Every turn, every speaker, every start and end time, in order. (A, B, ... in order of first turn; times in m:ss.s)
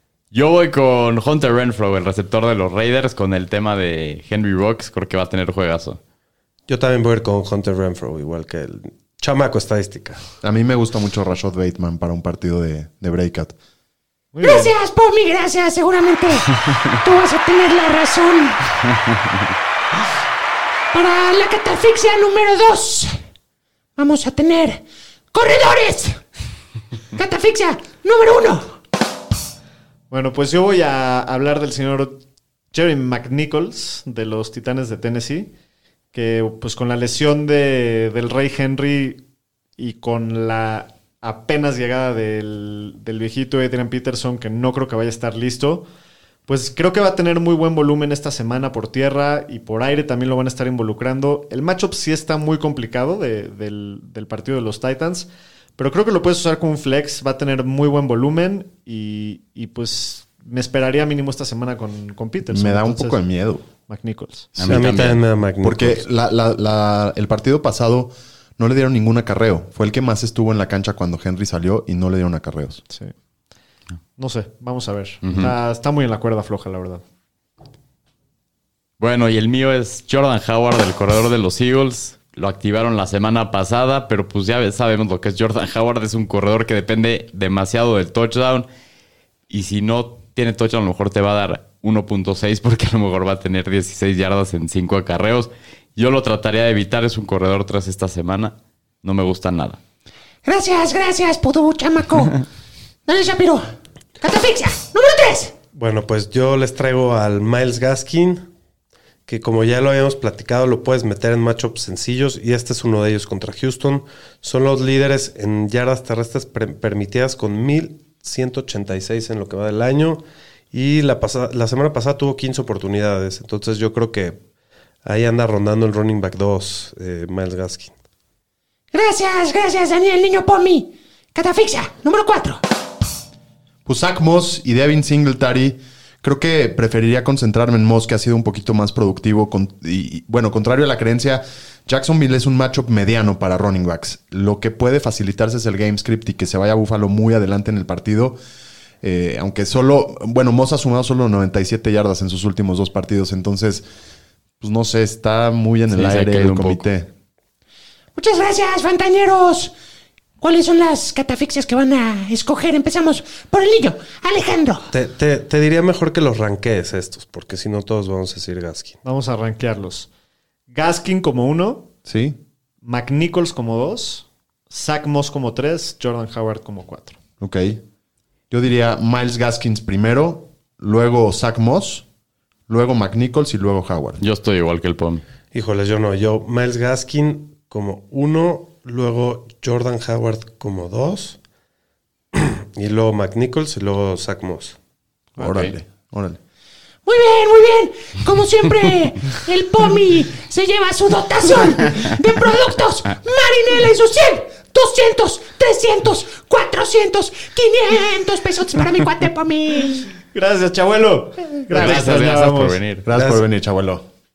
0:00.3-0:06.0 A
0:06.7-0:10.2 B
0:10.4-0:13.6 C
0:14.3-0:14.7 D
0:14.4-0:18.6 E
0:20.9-0:23.2 E
0:24.0-0:26.2 E
0:27.2-0:28.8 E
0:30.1-0:32.2 D
0:32.7-0:35.5 D
0:36.1-0:39.2 D
0:39.8-0:45.9 D
0:46.5-1:03.2 D
1:02.5-1:03.6 C
1:03.9-1:04.5 D
1:04.6-1:04.9 C
1:04.6-1:05.2 A
1:04.7-1:06.0 B
1:05.6-1:12.8 C
1:14.2-1:17.0 D
1:15.2-1:15.5 A
1:19.0-1:28.7 A
1:29.5-1:39.8 A
1:40.4-1:42.4 E
1:43.1-1:43.7 E
1:44.2-1:45.5 E
1:45.8-1:48.5 B
1:49.3-2:04.4 B
2:05.0-2:07.9 B
2:08.9-2:12.6 E
2:13.9-2:28.4 C
2:29.0-2:33.9 C
2:34.6-2:37.1 C
2:35.9-2:36.8 A
2:38.2-2:39.7 E
2:40.4-2:44.9 E
2:44.9-2:49.0 B
2:49.0-2:50.1 D
2:50.7-2:51.9 D
2:52.1-2:52.4 C
2:52.8-2:57.2 D
2:57.4-2:57.8 C
2:58.5-3:02.1 C
3:02.7-3:04.2 C
3:04.2-3:05.2 A
3:05.5-3:11.4 B
3:12.3-3:14.8 B
3:15.4-3:15.7 A
3:15.4-3:16.4 C
3:17.0-3:30.1 E
3:30.3-3:32.8 D
3:31.7-3:33.1 A
3:33.0-3:34.0 C
3:33.1-3:33.4 B